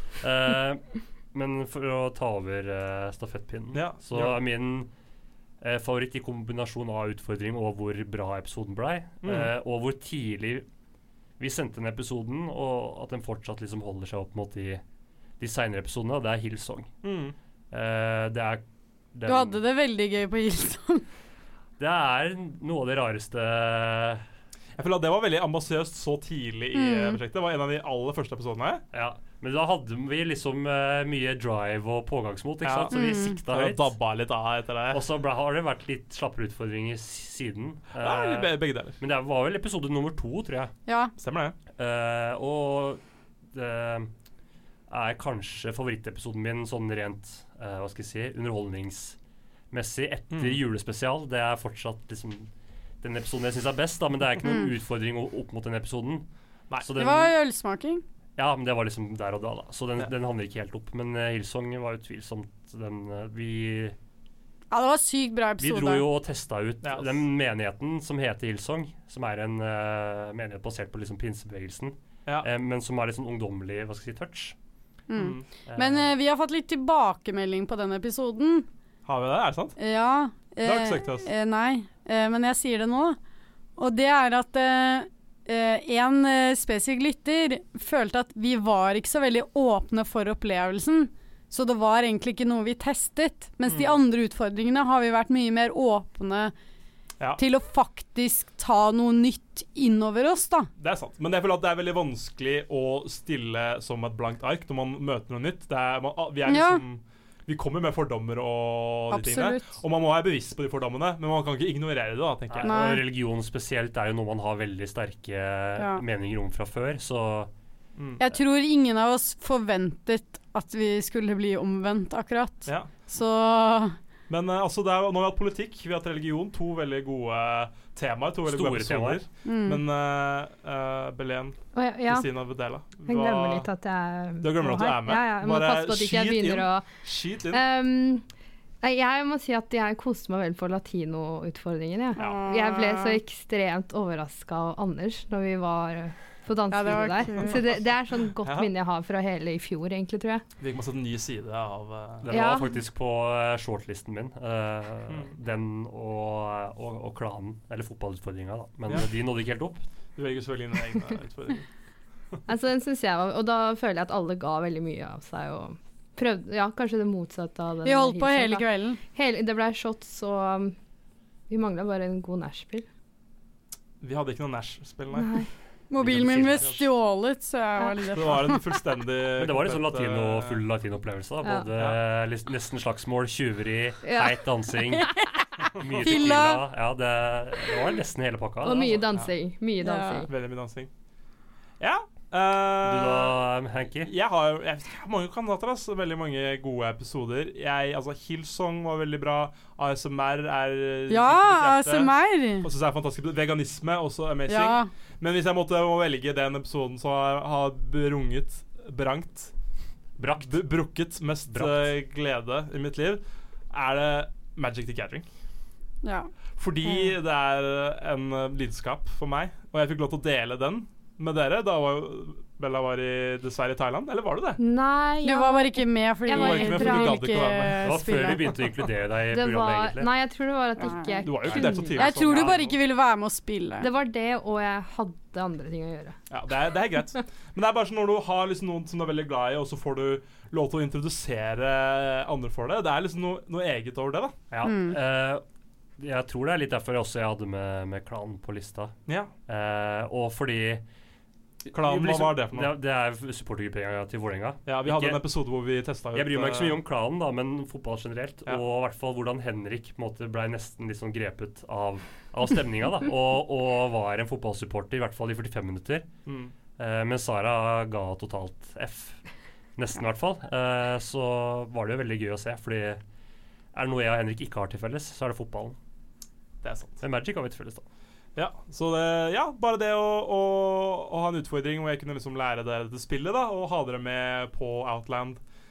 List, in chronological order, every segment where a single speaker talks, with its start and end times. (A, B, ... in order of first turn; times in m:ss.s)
0:00.2-0:04.9 A
0:03.7-0:04.4 B
0:05.6-0:10.7 A
0:09.2-0:09.5 B
0:11.4-0:14.8 A
0:15.4-0:16.9 A
0:17.0-0:17.4 B
0:17.7-0:18.6 A
0:19.1-0:19.6 A
0:19.3-0:21.0 C
0:21.8-0:24.2 A
0:24.8-0:28.8 B
0:26.7-0:27.2 C
0:28.9-0:33.9 A
0:32.6-0:35.0 B
0:32.9-0:33.4 C
0:34.9-0:40.7 A
0:38.0-0:39.0 B
0:40.9-0:41.1 C
0:41.2-0:41.6 B
0:41.8-0:44.1 A
0:44.9-0:49.2 A
0:49.7-0:52.5 A
0:50.3-0:50.6 B
0:53.0-0:56.3 A
0:56.8-0:57.3 A
0:57.0-0:58.0 C
0:58.4-1:04.0 A
1:04.7-1:06.1 C
1:05.6-1:14.6 A
1:06.8-1:07.1 B
1:15.1-1:18.7 C
1:15.1-1:15.5 B
1:15.7-1:16.1 A
1:19.1-1:19.8 B
1:19.8-1:23.2 C
1:20.6-1:21.3 B
1:23.8-1:36.5 C
1:33.7-1:34.0 B
1:37.4-1:40.7 C
1:40.8-1:52.8 B
1:46.5-1:46.8 C
1:49.1-1:49.8 C
1:52.5-1:57.5 A
1:52.6-1:53.0 C
1:55.8-1:56.0 C
1:58.0-1:58.2 B
1:58.2-2:04.0 C
2:04.3-2:13.7 B
2:08.4-2:09.2 A
2:09.4-2:09.8 C
2:11.8-2:12.3 D
2:13.1-2:16.9 D
2:14.4-2:17.6 B
2:17.5-2:18.2 D
2:18.8-2:30.4 D
2:22.2-2:23.2 C
2:22.2-2:22.4 B
2:26.7-2:27.6 C
2:28.4-2:28.7 B
2:30.6-2:32.3 B
2:32.2-2:39.8 A
2:32.3-2:32.8 D
2:40.2-2:41.7 B
2:42.5-2:50.8 D
2:47.8-2:49.0 C
2:51.5-2:52.9 D
2:54.0-2:55.4 B
2:55.1-2:55.5 D
2:55.9-2:58.6 C
2:56.0-2:56.8 A
2:56.5-2:56.8 B
2:58.1-3:00.6 B
2:59.4-3:05.1 A
3:04.0-3:04.4 D
3:05.8-3:09.0 A
3:05.8-3:06.6 C
3:06.0-3:06.3 B
3:08.6-3:10.3 D
3:09.0-3:09.3 B
3:09.8-3:10.3 C
3:10.3-3:10.9 B
3:11.8-3:13.5 B
3:12.8-3:14.1 A
3:14.0-3:29.5 B
3:21.1-3:22.7 C
3:24.5-3:24.9 C
3:30.2-3:30.7 A
3:30.4-3:35.3 B
3:31.5-3:32.0 A
3:36.0-3:36.3 C
3:36.6-3:44.6 B
3:44.6-3:47.2 D
3:45.2-3:48.6 C
3:46.3-3:48.6 B
3:47.8-3:50.1 A
3:49.3-3:52.2 D
3:50.8-3:53.9 C
3:51.2-3:52.8 B
3:52.1-3:52.7 A
3:53.8-3:56.2 D
3:56.3-4:04.4 B
4:04.5-4:05.4 A
4:04.6-4:05.0 C
4:06.0-4:09.0 A
4:09.1-4:09.3 B
4:09.5-4:10.8 A
4:11.7-4:15.2 A
4:11.7-4:12.8 B
4:14.7-4:16.8 B
4:16.1-4:26.1 A
4:26.3-4:26.5 B
4:26.8-4:29.2 A
4:29.8-4:33.0 A
4:33.7-4:35.8 A
4:36.6-4:37.0 B
4:37.0-4:37.8 A
4:38.4-4:45.4 B